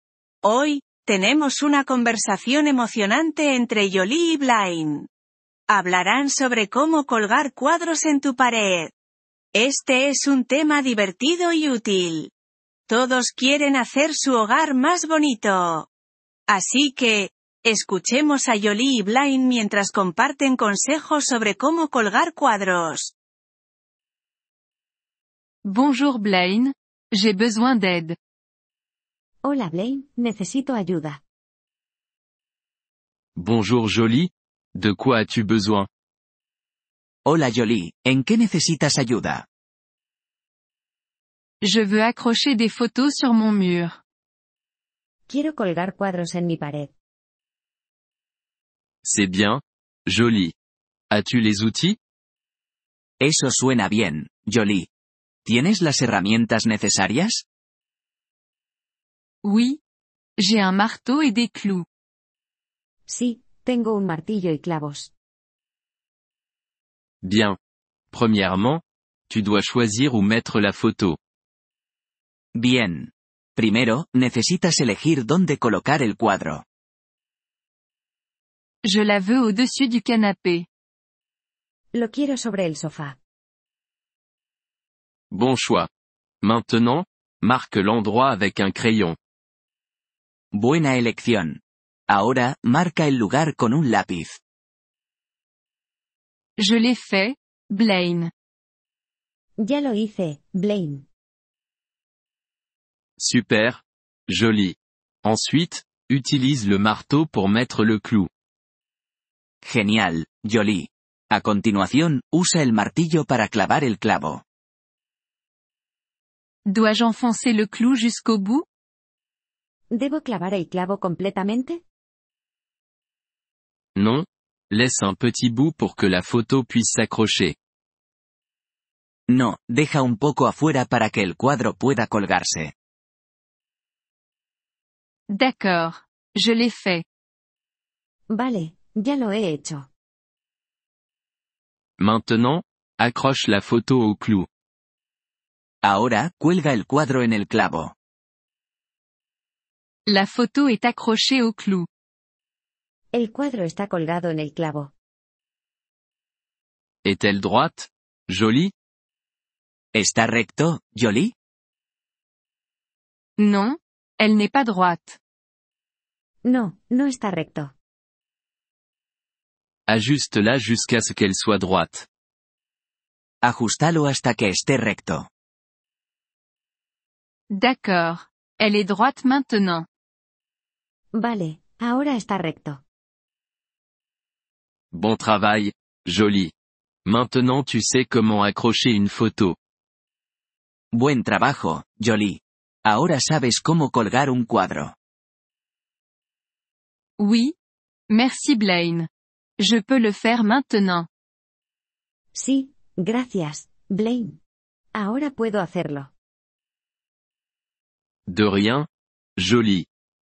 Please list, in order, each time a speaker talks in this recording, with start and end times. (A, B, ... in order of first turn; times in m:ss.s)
0:00.4-0:05.1 A
0:05.7-0:08.9 A
0:09.5-0:12.3 A
0:12.9-0:15.9 A
0:16.5-0:23.1 A
0:25.6-0:28.2 B
0:29.4-0:31.2 C
0:33.4-0:35.9 D
0:37.2-0:39.4 E
0:41.6-0:44.0 B
0:45.3-0:46.9 C
0:49.0-0:50.6 D
0:51.1-0:52.0 D
0:53.2-0:54.9 E
0:55.4-0:57.4 E
0:59.4-0:59.8 B
1:00.4-1:01.9 B
1:03.1-1:05.1 C
1:07.2-1:07.6 D
1:08.1-1:11.2 D
1:12.6-1:16.6 E
1:18.8-1:20.7 B
1:21.9-1:23.2 C
1:25.3-1:25.9 D
1:26.4-1:29.2 D
1:30.5-1:34.4 E
1:36.6-1:38.3 B
1:39.6-1:41.1 C
1:43.2-1:48.3 D
1:49.6-1:54.4 E
1:56.6-1:58.7 B
1:59.9-2:01.8 C
2:04.0-2:07.6 D
2:09.3-2:12.7 E
2:15.3-2:17.0 B
2:18.3-2:19.9 C
2:22.0-2:24.5 D
2:25.8-2:27.9 E
2:30.1-2:31.9 B
2:33.1-2:34.9 C
2:37.0-2:38.7 D
2:39.9-2:41.3 E
2:43.4-2:45.2 B
2:46.4-2:47.7 C
2:49.9-2:52.1 D
2:53.4-2:55.3 E
2:57.5-2:59.9 B
3:01.2-3:02.8 C
3:04.9-3:06.5 D
3:07.0-3:09.6 D
3:10.9-3:15.0 E
3:17.2-3:17.6 B
3:18.1-3:21.1 B
3:22.3-3:24.4 C
3:24.9-3:26.1 C
3:28.3-3:29.9 D